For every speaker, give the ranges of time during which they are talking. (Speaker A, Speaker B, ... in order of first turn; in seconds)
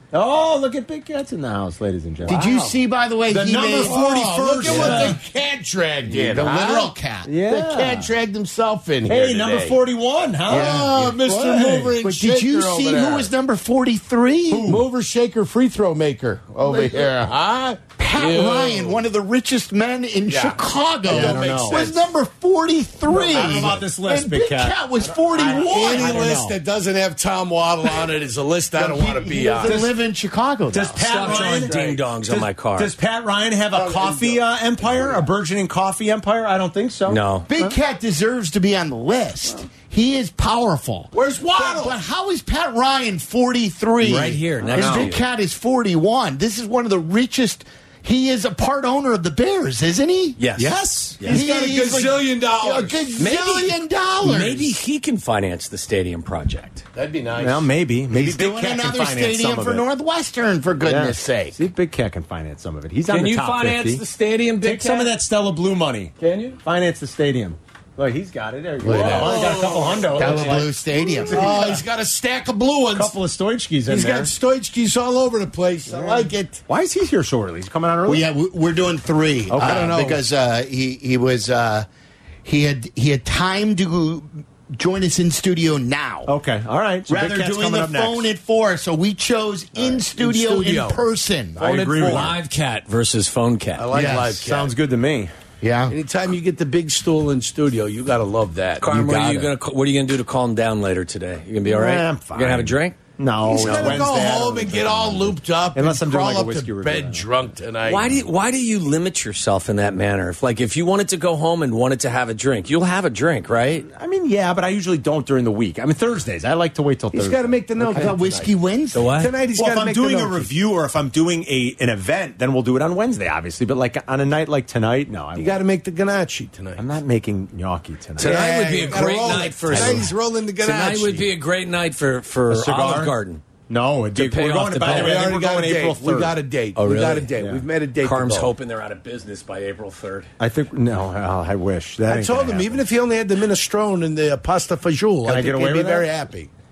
Speaker A: 0.1-5.2, 7.2-8.1, 9.1-11.9, 14.5-14.8, 21.1-21.9, 23.1-26.6, 29.6-29.9, 30.7-31.8, 32.3-37.7, 44.6-45.1, 50.6-51.2, 57.4-59.9, 60.8-64.0, 64.6-66.1, 66.6-71.8, 72.9-74.3, 75.9-78.3, 79.5-80.0, 86.3-88.3, 91.6-92.3, 94.4-95.3, 101.6-107.2, 113.8-118.1, 119.5-125.6, 126.8-130.1, 132.5-133.1, 133.7-136.3, 137.3-137.6, 140.4-142.8, 145.2-146.1
Speaker B: 2.2-5.2, 6.0-7.4, 10.5-11.2, 12.0-14.7, 16.6-17.2, 17.9-26.5, 28.7-31.0, 37.5-50.4, 51.2-54.7, 58.1-61.6, 68.8-71.8, 78.0-81.9, 82.4-86.3, 87.1-91.6, 93.9-94.4, 95.6-96.0, 117.8-119.2
Speaker C: 3.8-6.9, 7.5-9.8, 10.5-13.3, 14.6-19.0, 20.3-22.1, 25.4-29.8, 31.0-32.0, 33.7-35.2, 41.1-42.0, 44.7-45.1, 51.2-53.3, 56.9-57.7, 66.2-66.6, 68.9-73.1, 73.9-76.6, 79.6-80.2, 89.8-91.0, 91.5-92.4, 93.8-94.7, 95.9-99.5, 103.4-108.2, 117.1-120.5, 125.3-126.8, 128.2-131.3, 134.6-138.5, 142.1-146.5
Speaker D: 31.0-32.9, 37.1-37.5, 44.0-45.2, 50.4-51.4, 53.2-56.8, 63.1-65.1, 69.4-69.7, 92.1-93.9, 98.8-103.0, 107.8-113.8, 118.9-119.3, 128.2-133.4, 134.1-135.3, 136.8-137.3, 138.0-140.3